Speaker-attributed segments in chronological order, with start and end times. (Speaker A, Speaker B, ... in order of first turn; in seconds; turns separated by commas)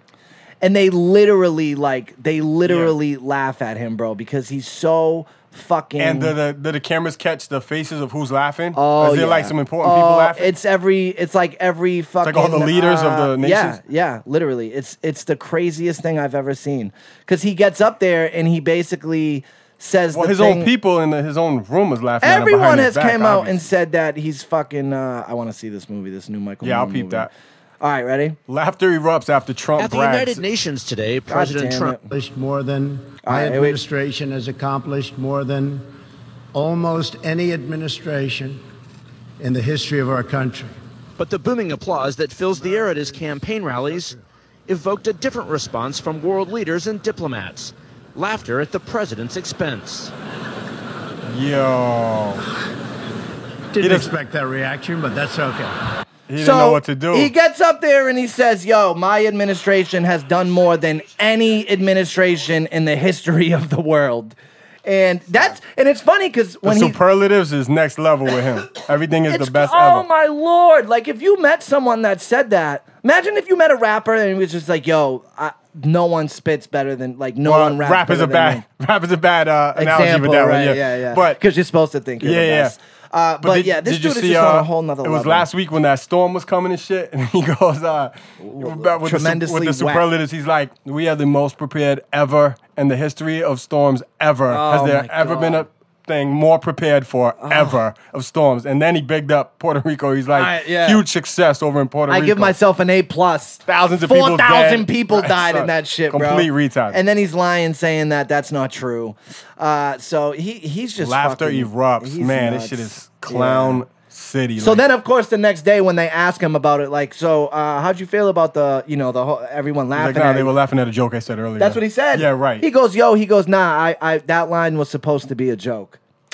Speaker A: 0.6-6.3, Speaker B: 2.6-3.0, Speaker B: 6.0-10.5, Speaker A: 8.7-20.7, Speaker B: 12.2-13.8, Speaker B: 20.1-23.7, Speaker A: 22.2-27.3, Speaker B: 26.6-27.3, Speaker A: 27.8-28.4, Speaker B: 28.5-30.4, Speaker C: 29.8-32.0, Speaker A: 31.3-32.0, Speaker D: 32.1-36.0, Speaker A: 33.2-33.8, Speaker D: 36.5-38.6, Speaker D: 39.4-40.7, Speaker C: 41.2-50.1, Speaker B: 51.2-52.4, Speaker D: 53.7-55.7, Speaker B: 53.8-54.1, Speaker B: 56.3-57.3, Speaker A: 56.4-67.0, Speaker B: 66.6-70.1, Speaker A: 69.3-78.6, Speaker B: 77.4-81.4, Speaker A: 79.7-85.5, Speaker B: 82.2-82.8, Speaker B: 83.4-102.5, Speaker A: 88.4-90.0, Speaker A: 94.5-95.7, Speaker A: 97.4-97.8, Speaker A: 100.3-101.0, Speaker A: 102.1-113.8, Speaker B: 103.7-107.0, Speaker B: 111.0-114.8, Speaker A: 114.6-120.5, Speaker B: 119.9-122.7, Speaker A: 121.6-126.0